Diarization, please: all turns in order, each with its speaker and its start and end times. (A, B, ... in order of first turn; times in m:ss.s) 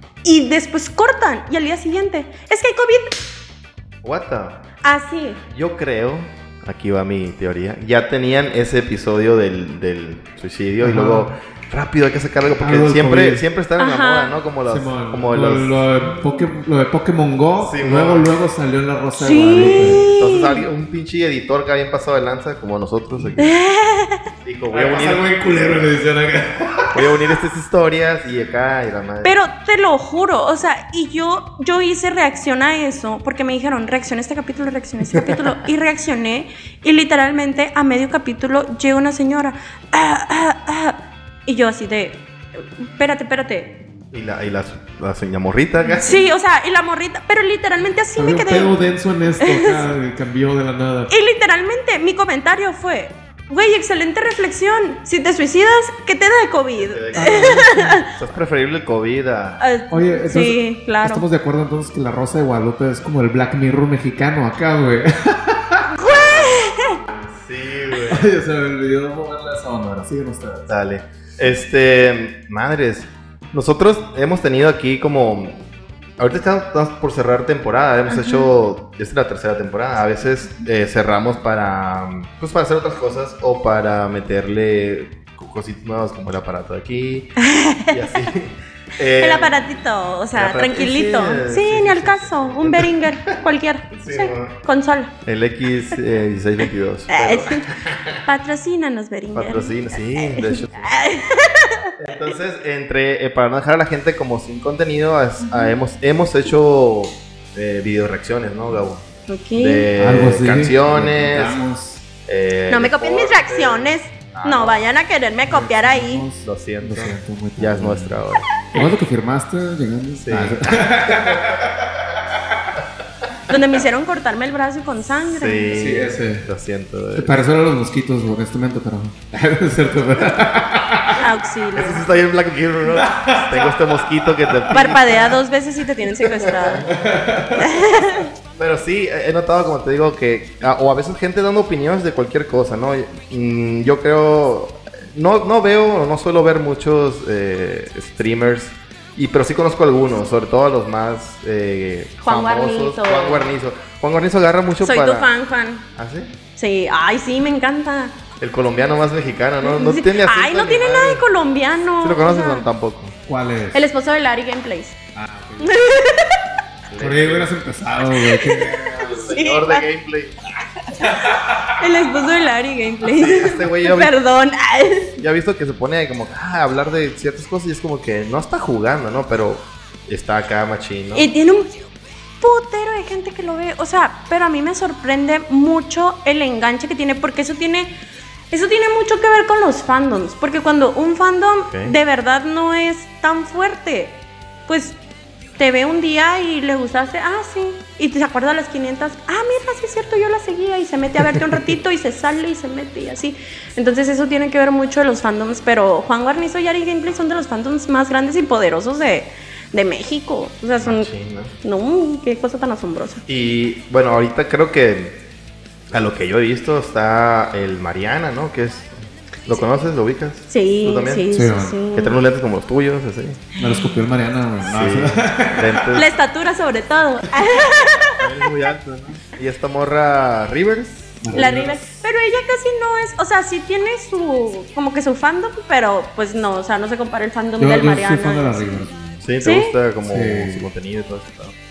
0:00.2-0:03.2 A
0:04.0-0:04.6 B
0:04.8-0:05.4 A
0:05.5-0:15.8 B
0:10.8-0:11.3 C
0:12.6-0:13.4 C
0:13.8-0:14.3 A
0:14.7-0:20.0 C
0:17.6-0:18.3 B
0:19.2-0:20.6 A
0:19.4-0:23.5 B
0:23.4-0:24.3 A
0:24.4-0:25.3 B
0:24.7-0:27.4 C
0:26.9-0:29.3 B
0:29.2-0:43.8 A
0:35.1-0:35.5 B
0:44.1-0:46.2 B
0:45.9-0:48.8 A
0:48.2-0:51.1 C
0:49.4-0:49.8 A
0:51.1-0:58.1 A
0:56.8-0:59.6 B
0:57.1-0:58.0 C
0:59.6-1:01.2 A
0:59.9-1:06.0 C
1:05.9-1:07.0 A
1:06.1-1:06.6 B
1:07.3-1:08.3 B
1:08.1-1:10.7 C
1:10.7-1:15.6 B
1:16.2-1:29.6 B
1:18.1-1:18.5 A
1:27.4-1:28.1 A
1:29.2-1:35.1 A
1:30.3-1:33.4 B
1:33.9-1:34.6 B
1:35.2-1:38.2 B
1:37.1-1:37.7 A
1:38.2-1:42.3 A
1:39.4-1:40.9 B
1:42.0-1:49.0 B
1:45.5-1:45.7 A
1:49.3-1:49.9 A
1:49.6-1:51.6 B
1:50.0-1:52.0 C
1:52.3-1:54.8 B
1:52.7-1:56.3 A
1:55.5-1:58.2 C
1:56.4-1:58.7 B
1:58.7-2:01.9 C
2:00.2-2:01.8 B
2:03.5-2:05.7 A
2:05.3-2:07.4 B
2:05.7-2:06.5 C
2:07.1-2:11.2 C
2:11.2-2:12.0 A
2:11.8-2:15.4 B
2:12.9-2:14.8 C
2:14.7-2:16.9 A
2:16.3-2:16.9 B
2:16.9-2:17.9 C
2:17.6-2:18.3 A
2:18.6-2:35.3 B
2:32.2-2:33.5 A
2:34.8-2:35.8 A
2:36.0-2:36.3 B
2:36.6-2:38.2 A
2:38.4-2:41.2 B
2:39.6-2:42.7 A
2:42.0-2:43.2 B
2:43.3-2:43.8 C
2:43.7-2:45.0 A
2:45.2-2:46.0 C
2:45.6-2:46.5 A
2:46.9-2:47.5 B
2:47.0-2:49.1 C
2:48.1-2:49.8 A
2:48.9-2:50.4 B
2:50.8-2:55.2 A
2:51.0-2:51.9 C
2:53.0-2:54.2 B
2:55.2-3:01.3 B
3:01.1-3:01.8 A
3:02.4-3:07.9 A
3:08.5-3:15.0 A
3:15.6-3:31.1 A
3:30.8-3:31.5 B
3:31.6-3:33.2 A
3:33.3-3:35.2 B
3:35.9-3:38.9 B
3:39.5-3:41.3 B
3:40.5-3:42.2 A
3:41.3-3:41.8 C
3:41.9-3:43.5 B
3:43.6-3:46.0 C
3:44.6-3:46.1 B
3:45.9-3:48.3 A
3:48.2-3:51.2 B
3:51.2-3:51.8 C
3:51.3-3:58.9 A
3:57.6-3:59.2 C
3:59.2-4:01.6 B
3:59.4-3:59.8 A
4:00.0-4:00.7 C